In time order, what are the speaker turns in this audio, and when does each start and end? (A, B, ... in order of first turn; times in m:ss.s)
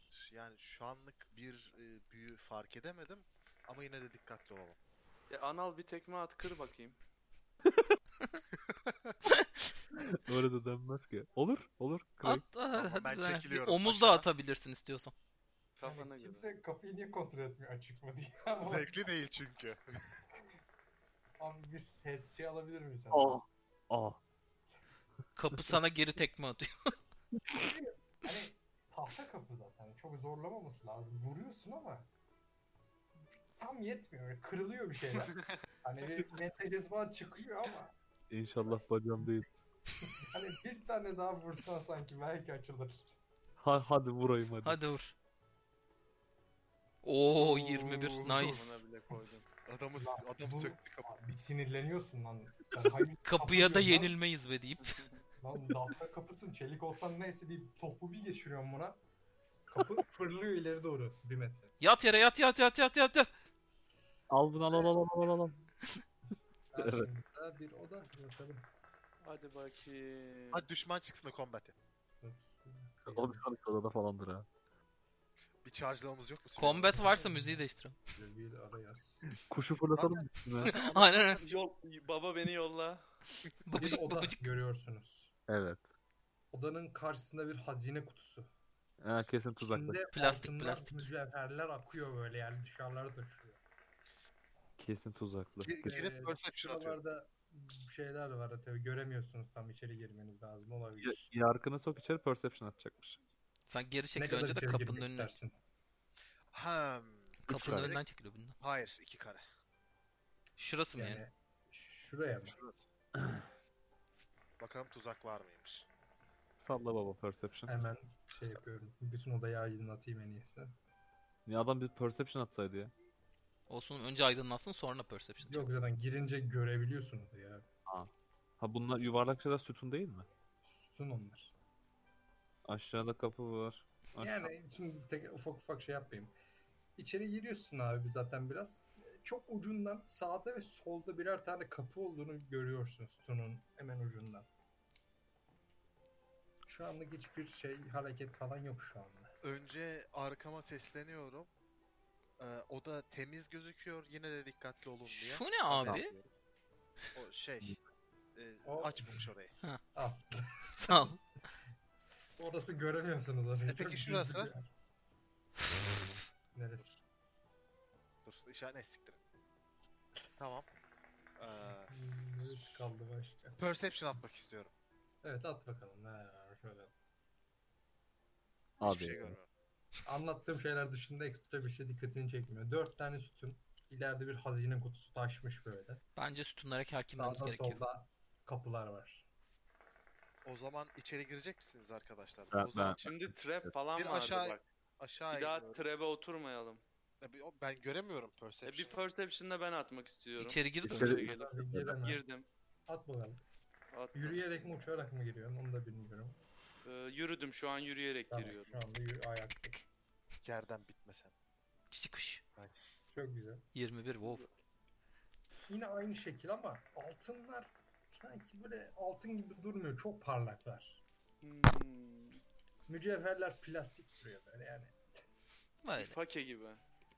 0:00.1-0:04.8 A
0:05.3-0:07.0 B
0:08.6-0:09.1 A
0:09.9-0:12.5 C
0:12.2-0:15.1 D
0:12.7-0:14.3 A
0:15.8-0:16.5 B
0:15.8-0:19.0 E
0:18.6-0:19.8 A
0:21.4-0:23.4 E
0:23.1-0:24.2 C
0:25.4-0:26.9 D
0:27.5-0:32.1 E
0:33.6-0:37.9 E
0:35.2-0:35.5 B
0:38.3-0:39.4 C
0:40.3-0:43.1 E
0:43.6-0:44.8 C
0:44.6-0:45.1 D
0:47.0-0:48.8 D
0:47.4-0:48.5 A
0:48.3-0:49.4 B
0:49.6-0:51.1 A
0:50.0-0:54.1 E
0:53.2-0:55.0 D
0:55.4-0:59.0 E
0:59.7-1:01.7 E
1:01.8-1:03.3 D
1:04.3-1:05.6 C
1:06.7-1:08.7 E
1:06.8-1:07.1 C
1:09.2-1:10.6 B
1:10.5-1:11.7 A
1:12.2-1:13.4 E
1:13.1-1:14.5 C
1:15.6-1:17.1 A
1:16.6-1:18.0 D
1:16.9-1:17.6 E
1:18.1-1:19.2 E
1:19.3-1:20.7 C
1:19.9-1:21.6 A
1:20.7-1:21.4 D
1:21.4-1:23.0 B
1:23.6-1:24.5 D
1:23.7-1:25.3 E
1:25.5-1:25.9 C
1:26.5-1:28.5 E
1:29.0-1:30.0 C
1:29.6-1:33.6 E
1:30.1-1:31.1 D
1:34.8-1:35.7 C
1:35.6-1:37.0 A
1:35.8-1:41.3 E
1:41.0-1:43.2 C
1:43.7-1:45.3 D
1:44.2-1:45.6 E
1:46.5-1:48.0 A
1:47.4-1:48.6 D
1:47.5-1:47.9 C
1:48.6-1:49.4 A
1:50.6-1:51.2 D
1:50.9-1:52.6 E
1:52.4-1:52.9 A
1:53.2-1:53.5 C
1:54.6-1:55.8 A
1:56.6-1:57.8 C
1:57.6-2:00.8 E
2:01.4-2:02.9 C
2:03.7-2:05.8 D
2:05.4-2:07.6 E
2:07.9-2:10.3 C
2:10.6-2:11.5 E
2:12.6-2:14.5 C
2:14.2-2:16.3 E
2:17.0-2:24.5 E
2:26.6-2:29.3 E
2:29.4-2:31.5 A
2:32.4-2:36.3 A
2:35.0-2:36.1 D
2:37.1-2:37.7 A
2:38.4-2:39.5 A
2:38.6-2:39.3 E
2:39.9-2:40.4 E
2:40.7-2:41.2 D
2:42.4-2:44.7 E
2:43.7-2:44.5 A
2:46.5-2:47.0 E
2:48.2-2:49.2 A
2:50.4-2:50.7 A
2:51.4-2:52.9 A
2:51.9-2:53.6 E
2:53.6-2:54.7 A
2:55.2-2:56.9 E
2:58.8-2:59.4 C
2:58.8-2:59.5 A
3:00.0-3:06.0 E
3:06.2-3:07.8 D
3:07.1-3:09.3 E
3:10.4-3:13.1 A
3:12.5-3:13.7 C
3:13.0-3:14.6 B
3:14.0-3:15.6 A
3:15.3-3:16.8 B
3:17.2-3:19.0 A
3:18.6-3:22.4 B
3:20.4-3:21.1 D
3:20.8-3:21.9 C
3:21.0-3:22.2 E
3:22.9-3:23.4 E
3:23.9-3:24.8 B
3:24.1-3:26.4 E
3:26.8-3:28.8 B
3:28.3-3:29.8 E
3:30.4-3:31.3 A
3:31.9-3:32.4 D
3:32.6-3:32.9 A
3:33.1-3:33.6 E
3:33.7-3:34.5 D
3:35.7-3:41.0 E
3:41.4-3:42.4 B
3:42.9-3:45.0 E
3:45.8-3:46.2 D
3:46.0-3:46.8 B